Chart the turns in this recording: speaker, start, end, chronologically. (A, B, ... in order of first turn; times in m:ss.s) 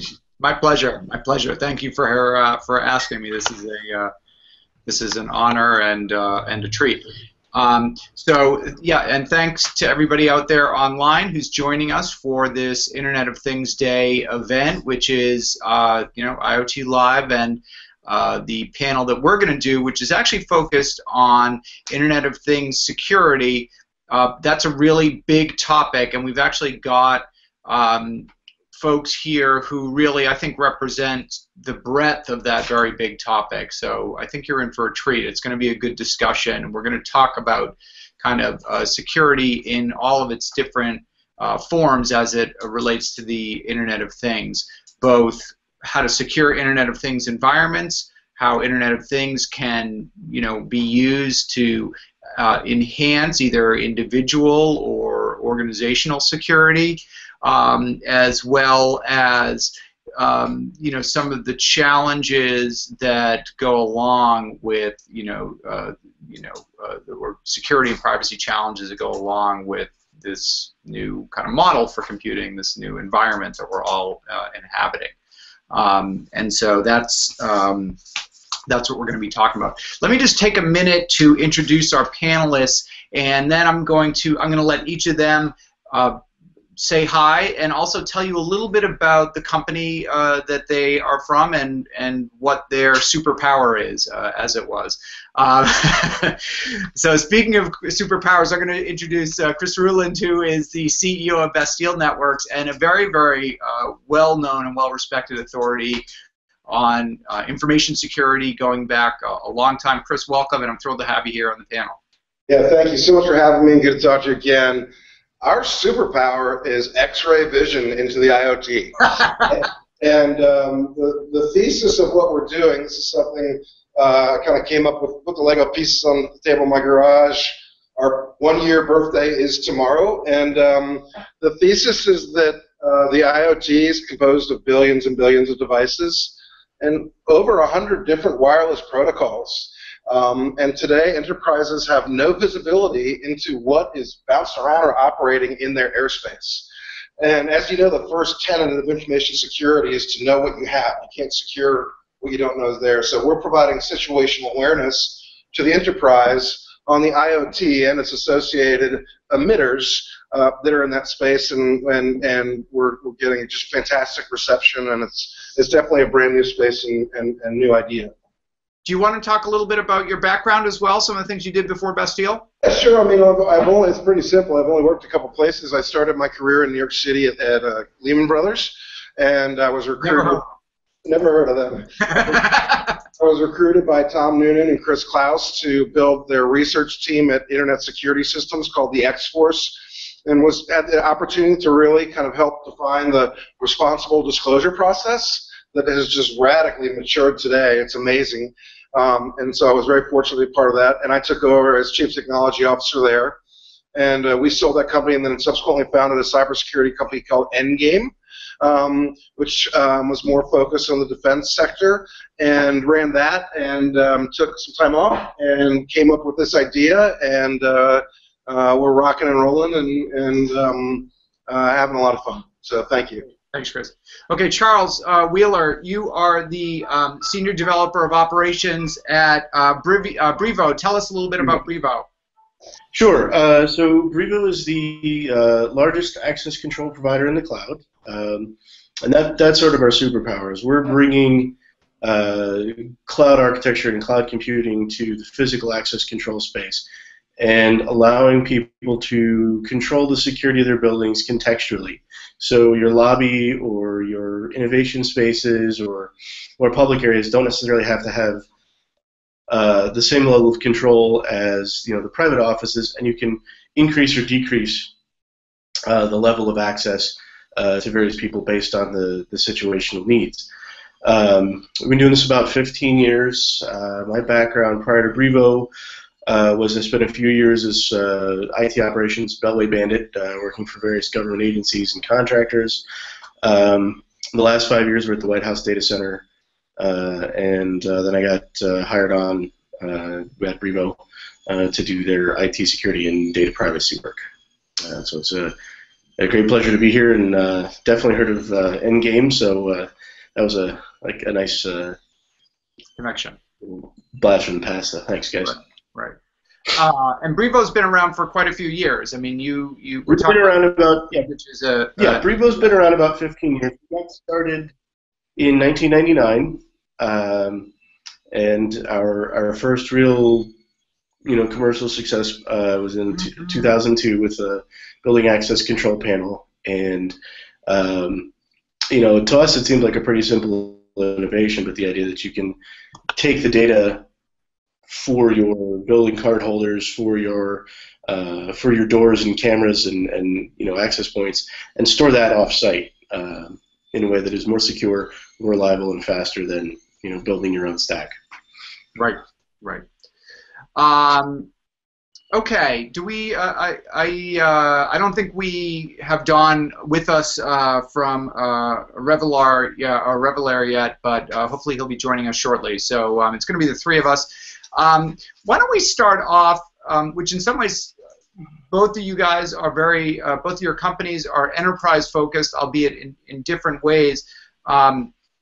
0:00.4-0:04.1 A
0:04.8-1:15.2 A
1:15.7-1:18.0 A
1:18.7-1:26.2 A
1:26.8-1:46.0 A
1:46.7-1:52.0 A
1:52.5-1:54.9 B
1:55.4-2:26.7 B
2:27.2-2:48.1 B
2:48.8-2:52.4 A
2:52.6-3:00.5 B
3:00.0-3:00.4 A
3:01.0-3:02.5 B
3:02.0-3:03.0 A
3:03.2-3:23.4 B
3:23.9-3:43.3 B
3:43.5-3:52.1 A
3:52.9-4:06.9 C
4:07.4-4:18.4 C
4:19.5-4:24.9 C
4:25.9-4:30.4 C
4:31.0-4:35.7 C
4:36.2-4:42.8 C
4:43.4-4:46.2 C
4:46.8-4:54.2 C
4:54.8-4:55.5 C
4:56.2-5:02.0 C
5:03.0-5:03.4 A
5:03.6-5:05.6 C
5:05.5-5:06.2 A
5:06.7-5:10.6 A
5:10.1-5:11.3 C
5:11.1-5:12.2 A
5:12.0-5:14.7 C
5:15.4-5:17.7 C
5:18.3-5:20.5 C
5:21.2-5:27.2 C
5:27.7-5:28.3 C
5:28.9-5:32.6 C
5:33.1-5:34.0 C
5:34.9-5:48.1 C
5:49.0-5:49.8 A
5:50.8-5:51.5 A
5:52.3-6:07.9 A
6:08.7-6:15.1 A